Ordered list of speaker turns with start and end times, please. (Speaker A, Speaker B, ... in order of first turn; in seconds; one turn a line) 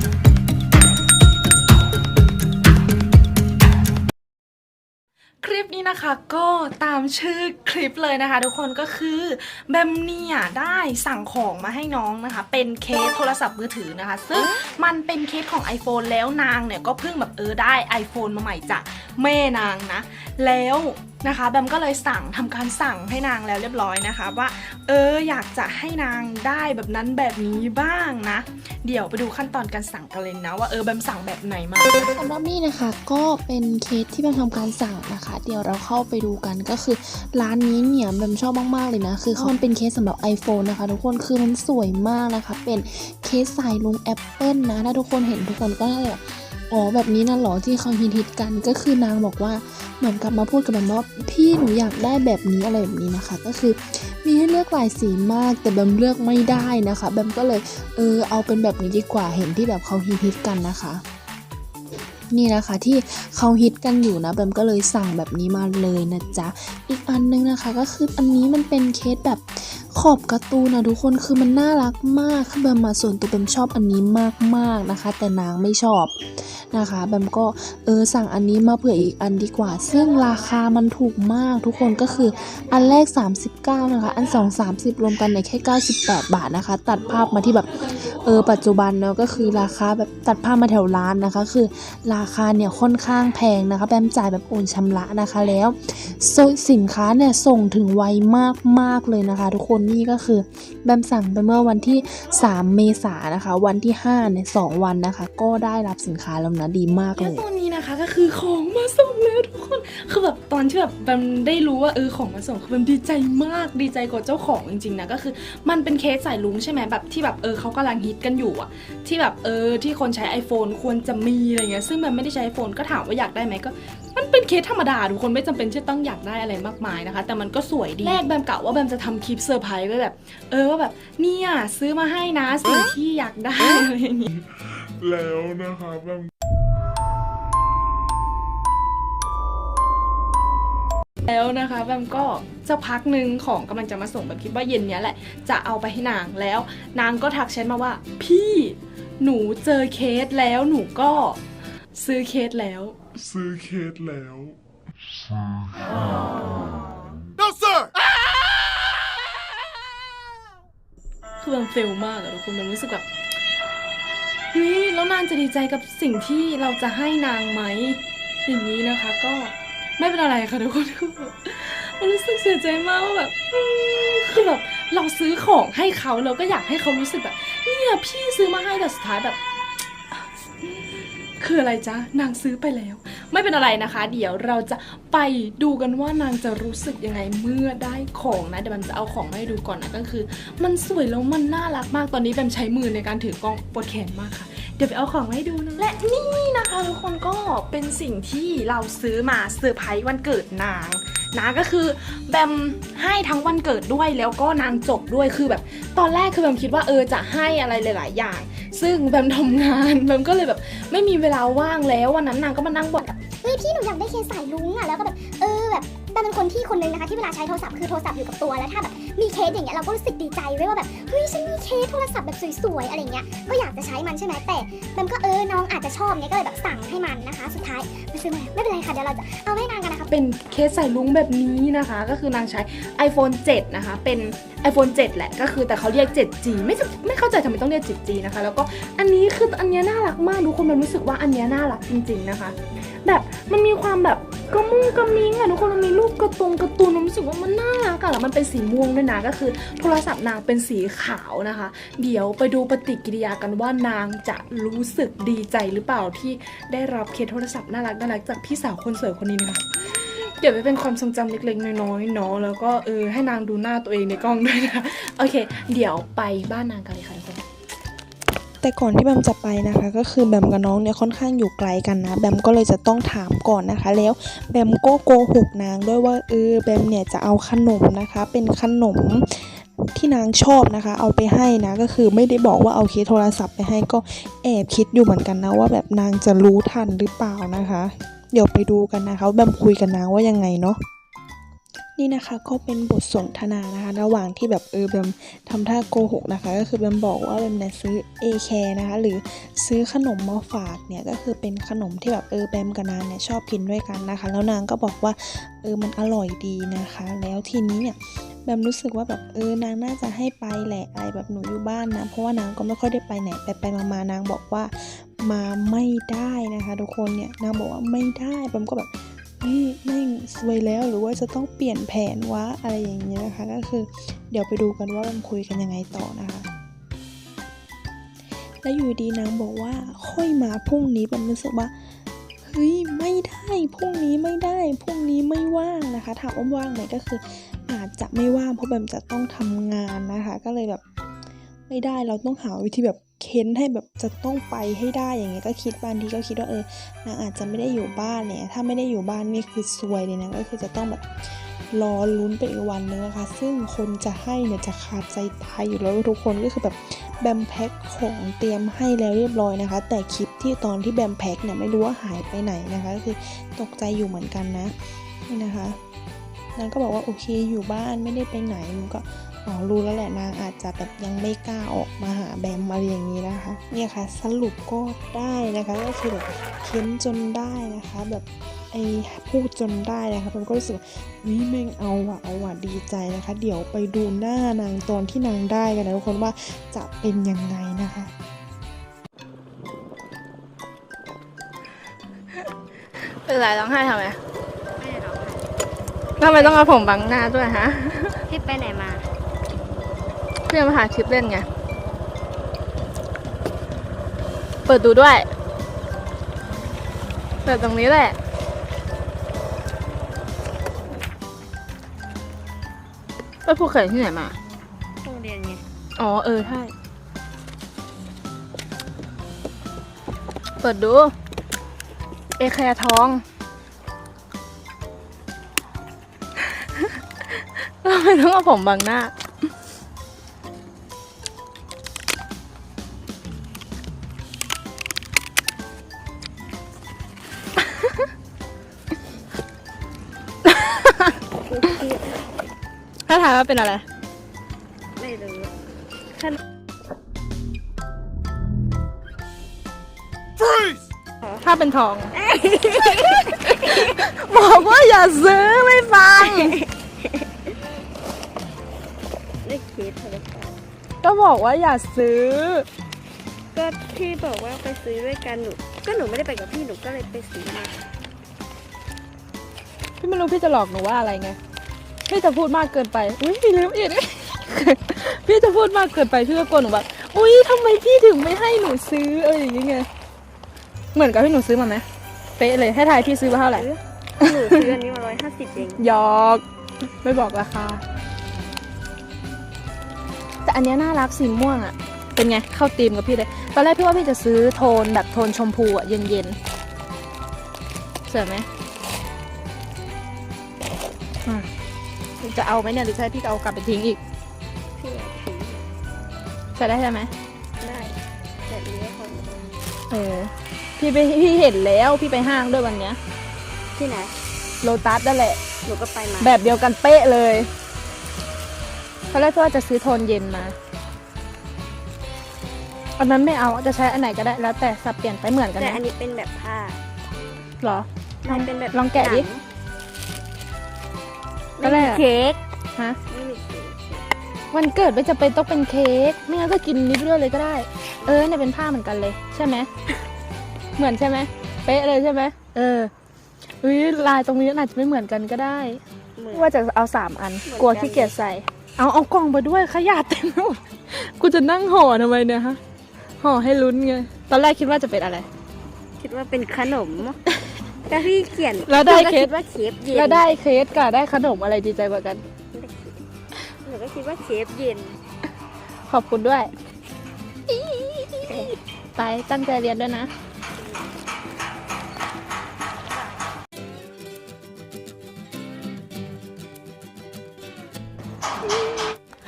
Speaker A: 5.4-32.1
Speaker B: 32.1-61.0
Speaker B: 62.3-107.4
Speaker A: 107.2-134.3
Speaker C: 134.3-136.3
Speaker A: 141.2-151.4
Speaker A: 151.9-152.9
Speaker C: 153.2-154.6
Speaker A: 161.4-163.1
Speaker A: 164.5-179.4
Speaker A: 180.1-213.1
Speaker D: 213.2-230.1
Speaker A: 230.1-267.4
Speaker E: 268.6-290.8
Speaker E: 292.0-326.5
Speaker E: 328.6-331.7
Speaker E: 332.4-340.8
Speaker E: 341.7-351.1
Speaker E: 351.7-364.7
Speaker E: 365.3-365.8
Speaker E: 366.6-388.1
Speaker A: 393.2-394.2
Speaker F: 394.8-395.4
Speaker A: 396.2-398.2
Speaker F: 396.2-396.6
Speaker F: 398.3-399.1
Speaker A: 400.5-401.5
Speaker A: 404.7-405.3
Speaker A: 407.4-408.1
Speaker A: 413.4-414.3
Speaker F: 415.0-415.6
Speaker A: 416.0-416.7
Speaker A: 420.6-421.1
Speaker A: 422.4-423.2
Speaker A: 427.8-429.1
Speaker A: 440.4-441.6
Speaker F: 441.5-442.3
Speaker A: 443.1-443.8
Speaker F: 445.0-445.5
Speaker A: 451.4-452.1
Speaker F: 452.2-453.2
Speaker A: 452.7-456.6
Speaker F: 456.2-457.1
Speaker F: 459.4-460.6
Speaker A: 461.0-462.7
Speaker F: 463.5-467.8
Speaker A: 470.0-471.4
Speaker A: 472.1-479.9
Speaker A: 480.9-481.8
Speaker A: 482.4-483.7
Speaker F: 483.5-485.8
Speaker A: 484.2-484.7
Speaker A: 485.7-486.4
Speaker A: 487.0-487.8
Speaker A: 490.4-496.4
Speaker A: 498.1-498.5
Speaker A: 502.2-504.0
Speaker F: 504.8-505.6
Speaker A: 506.6-507.1
Speaker F: 507.6-507.9
Speaker F: 508.5-509.4
Speaker A: 509.9-513.0
Speaker F: 513.8-514.1
Speaker A: 514.6-515.4
Speaker F: 515.6-516.3
Speaker A: 516.2-517.5
Speaker A: 519.1-520.5
Speaker A: 523.0-525.8
Speaker F: 525.6-526.8
Speaker A: 527.6-529.3
Speaker F: 528.2-529.3
Speaker F: 531.6-532.4
Speaker A: 531.6-532.0
Speaker F: 533.1-534.0
Speaker A: 534.5-539.7
Speaker A: 540.8-542.9
Speaker A: 543.6-545.8
Speaker F: 546.2-546.5
Speaker A: 546.3-552.6
Speaker F: 547.4-548.1
Speaker A: 553.2-555.3
Speaker F: 556.0-557.2
Speaker F: 557.9-560.3
Speaker A: 558.6-559.4
Speaker A: 559.9-562.2
Speaker F: 562.5-563.0
Speaker F: 563.6-565.0
Speaker A: 565.9-566.5
Speaker A: 567.5-570.1
Speaker F: 568.3-568.5
Speaker F: 570.6-570.9
Speaker A: 578.4-579.0